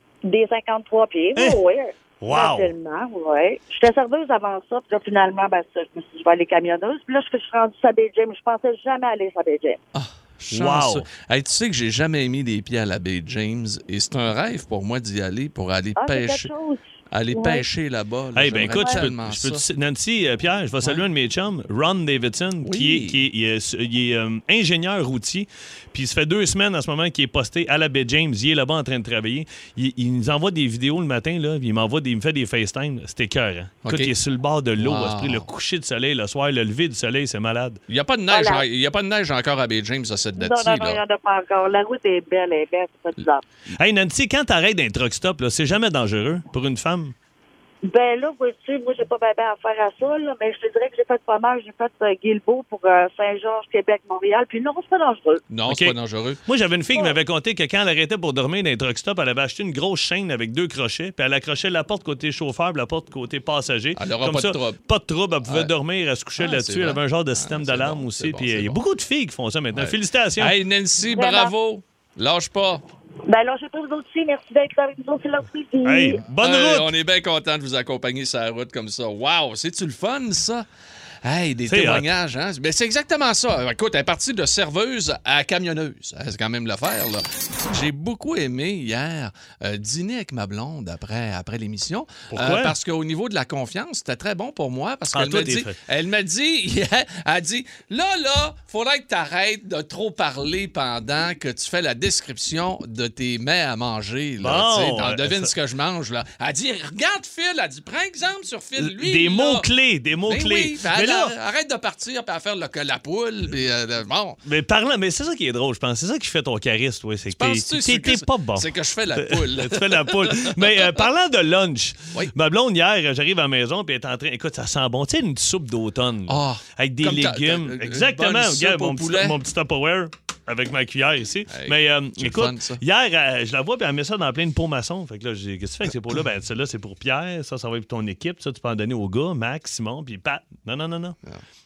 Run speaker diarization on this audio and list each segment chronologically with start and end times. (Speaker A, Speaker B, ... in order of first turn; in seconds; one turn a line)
Speaker A: 0.2-9.8
Speaker B: 1.3-1.6
Speaker B: 2.2-2.7
Speaker C: 9.9-16.5
Speaker B: 10.5-11.1
Speaker A: 15.9-17.7
Speaker C: 17.1-19.6
Speaker B: 18.3-37.8
Speaker A: 18.7-19.0
Speaker C: 22.6-23.2
Speaker C: 33.8-34.1
Speaker C: 34.8-35.5
Speaker C: 37.9-41.0
Speaker A: 38.3-38.6
Speaker A: 40.4-43.4
Speaker B: 43.8-47.1
Speaker A: 47.8-55.4
Speaker C: 55.5-56.4
Speaker B: 55.7-70.5
Speaker C: 64.0-64.8
Speaker C: 65.5-65.7
Speaker C: 66.4-68.8
Speaker C: 69.7-72.8
Speaker A: 71.0-71.5
Speaker A: 73.3-76.2
Speaker B: 75.8-76.9
Speaker C: 76.4-80.7
Speaker C: 81.2-109.7
Speaker B: 81.7-82.1
Speaker B: 92.3-92.7
Speaker B: 95.1-95.8
Speaker B: 104.4-105.5
Speaker B: 108.8-111.3
Speaker C: 110.2-114.4
Speaker B: 114.4-141.2
Speaker C: 117.3-120.6
Speaker C: 126.3-129.4
Speaker C: 131.5-132.8